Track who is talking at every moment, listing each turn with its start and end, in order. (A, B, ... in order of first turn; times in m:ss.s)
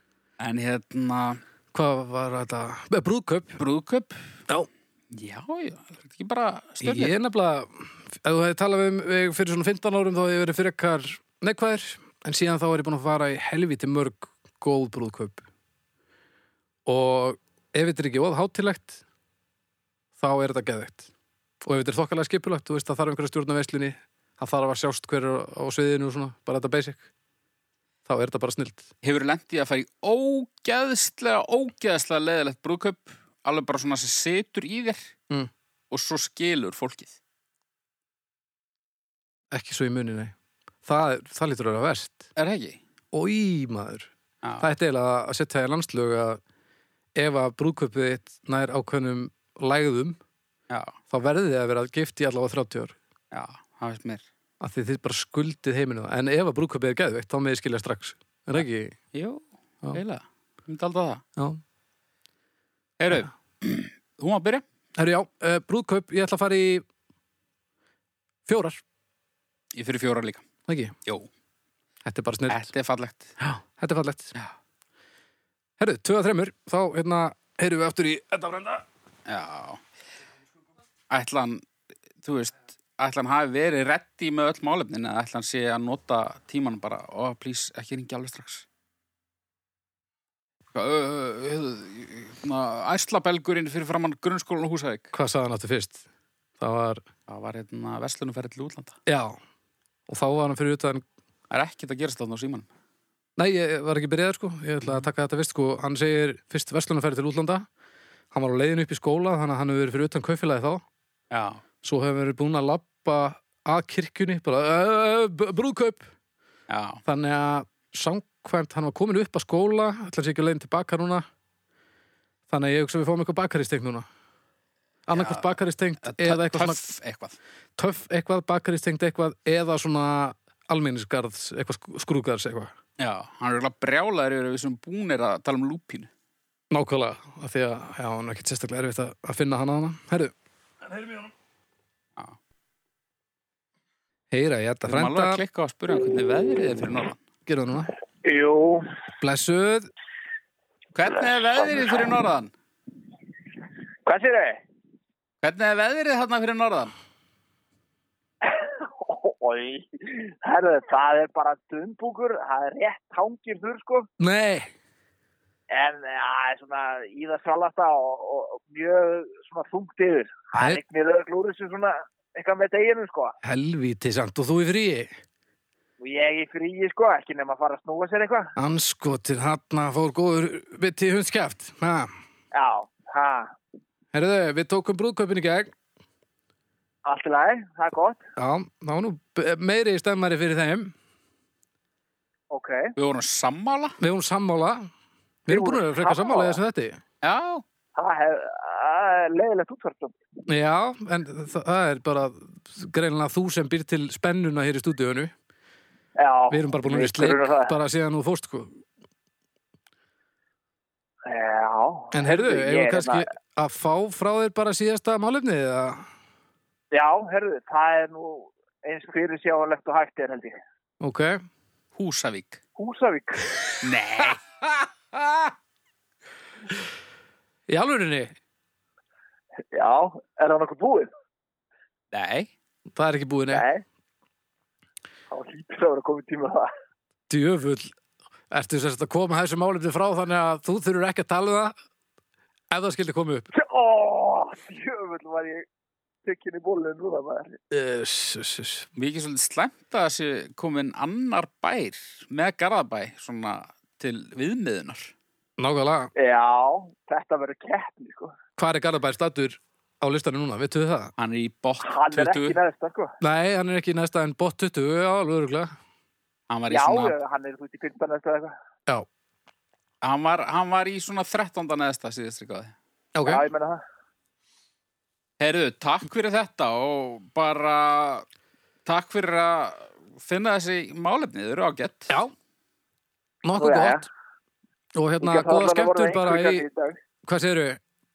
0:00.4-0:01.4 A
0:01.7-0:03.6 B
0:03.6-0:04.4 A
0:05.1-0:07.1 A
0:06.8-0:15.4 B
0:16.8-0:19.0 B
0:20.2-0:21.1 B
0:21.6-0:27.0 B
0:28.0-0:28.9 B
0:29.0-0:35.1 A
0:35.9-0:37.2 A
0:39.5-0:40.3 B
0:40.8-0:42.3 B
0:42.4-0:42.8 A
0:43.1-0:46.4 B
0:44.4-0:44.7 A
0:47.2-0:50.2 B
0:50.7-0:51.0 A
0:51.1-0:53.0 B
0:53.3-0:54.2 A
0:54.6-0:59.0 B
0:59.1-1:01.2 A
1:03.0-1:04.6 A
1:04.9-1:06.8 B
1:08.4-1:08.8 B
1:09.7-1:10.4 A
1:10.7-1:10.9 B
1:12.0-1:12.7 B
1:12.5-1:13.4 A
1:13.4-1:14.3 B
1:15.8-1:18.8 B
1:19.3-1:19.8 A
1:21.1-1:21.6 A
1:22.2-1:28.6 A
1:30.7-1:35.1 A
1:35.1-1:36.0 B
1:36.6-1:37.0 B
1:37.3-1:39.0 A
1:39.0-1:39.4 B
1:40.1-1:41.0 B
1:41.5-1:42.7 A
1:43.4-1:47.6 B
1:48.3-1:50.8 B
1:51.3-1:51.6 A
1:51.8-1:56.1 B
1:56.7-1:57.0 A
1:57.0-2:01.2 B
2:02.5-2:04.0 B
2:05.1-2:06.8 B
2:05.1-2:07.4 A
2:07.8-2:12.7 B
2:13.0-2:16.1 A
2:16.7-2:20.3 B
2:20.9-2:21.3 B
2:24.3-2:25.4 B
2:24.9-2:27.2 A
2:27.4-2:27.9 B
2:28.2-2:28.9 C
2:29.2-2:29.9 B
2:30.9-2:32.5 A
2:34.0-2:34.6 C
2:35.4-2:36.9 A
2:38.4-2:44.1 C
2:44.2-2:44.7 B
2:45.7-2:53.3 C
2:50.5-2:50.8 B
2:53.4-2:55.1 B
2:56.0-2:58.5 C
2:58.6-3:02.1 B
3:02.5-3:03.5 C
3:04.1-3:05.7 B
3:07.0-3:08.2 C
3:08.4-3:10.9 B
3:12.5-3:12.9 C
3:13.0-3:14.0 A
3:14.0-3:14.9 B
3:15.5-3:17.0 B
3:15.5-3:16.6 C
3:17.2-3:17.6 A
3:18.0-3:20.2 C
3:20.5-3:25.3 B
3:26.2-3:27.7 C
3:26.5-3:28.8 B
3:31.2-3:33.2 C
3:32.1-3:36.0 B
3:36.9-3:40.6 C
3:41.0-3:41.4 B
3:42.0-3:42.6 A
3:42.8-3:43.4 C
3:43.8-3:44.4 A
3:45.1-3:45.5 B
3:47.7-3:48.3 B
3:49.7-3:51.1 C
3:52.1-3:52.5 A
3:52.9-3:53.6 B
3:53.5-3:53.8 C
3:55.3-3:56.7 C
3:57.3-3:57.9 B
3:58.5-4:01.7 B
4:02.7-4:03.5 B
4:03.5-4:05.7 C
4:06.2-4:07.6 C
4:07.7-4:08.9 B
4:09.0-4:15.1 A
4:15.6-4:16.1 B
4:16.2-4:18.3 C
4:18.6-4:21.1 B
4:21.2-4:22.6 A
4:21.8-4:23.1 C
4:23.2-4:25.7 B
4:26.5-4:27.1 A
4:26.7-4:28.5 C
4:30.0-4:32.7 A
4:33.1-4:33.4 B
4:33.2-4:33.8 C
4:35.4-4:38.2 A
4:38.8-4:42.2 A
4:43.4-4:44.1 B
4:43.6-4:44.0 C
4:44.9-4:46.6 B
4:45.2-4:47.0 C
4:47.2-4:47.8 B